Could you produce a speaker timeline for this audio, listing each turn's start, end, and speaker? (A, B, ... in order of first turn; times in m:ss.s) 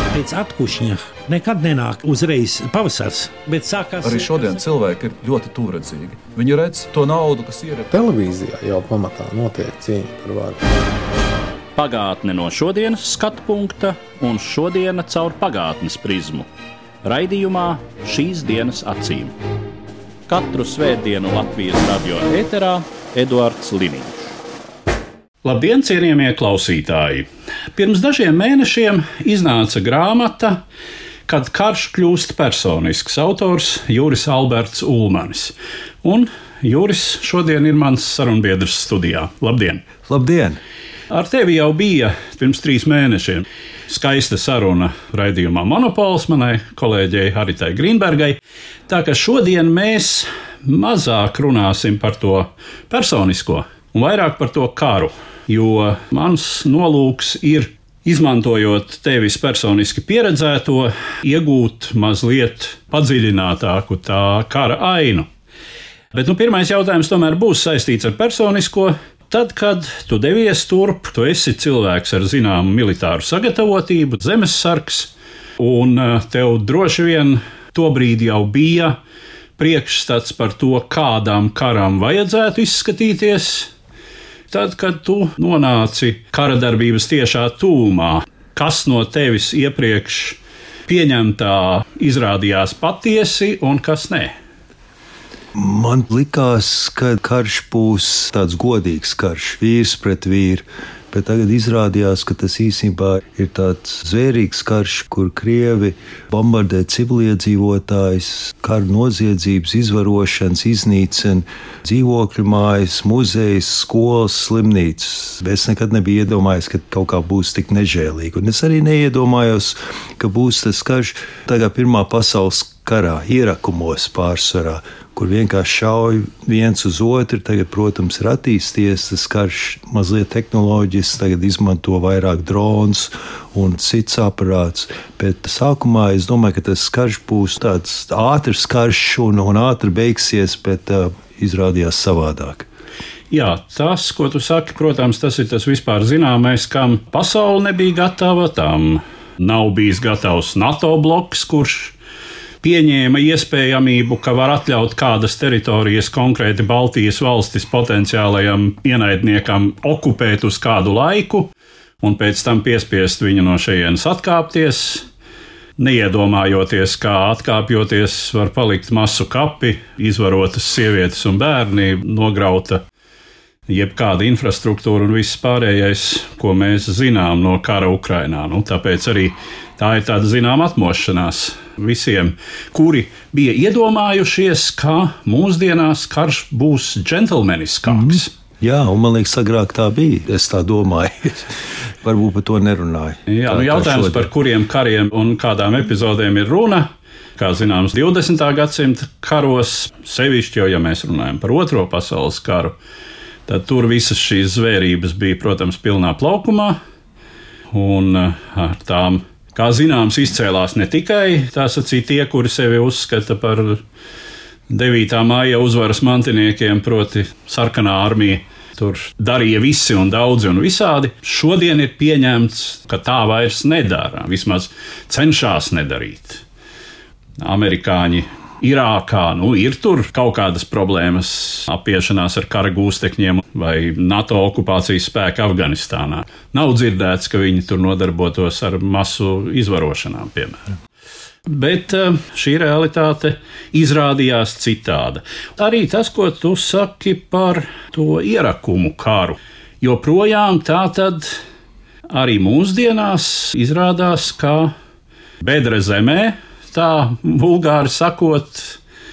0:00.1-0:04.4 A
0:04.0-0:07.9 B
0:07.9-0:10.7 C
0:11.8-0:16.5 D
0:17.0-0:19.3 D
0:20.3-0:24.3 D
0:25.4-0:30.6 D
0:31.3-0:39.8 D
0:40.1-0:40.6 E
0:41.1-1:05.3 D
1:06.1-1:19.0 D
1:19.6-1:23.7 D
1:24.5-1:34.3 D
1:35.5-2:22.7 E
2:23.3-2:32.0 D
2:32.6-2:45.1 D
2:45.8-2:52.8 D
2:53.7-3:08.3 D
3:07.9-3:14.3 E
3:13.3-3:22.8 D
3:23.5-3:26.8 D
3:27.7-3:33.8 D
3:34.7-3:46.4 D
3:47.4-4:00.6 D
4:01.5-4:11.4 D
4:12.1-4:14.7 D
4:15.4-4:18.8 D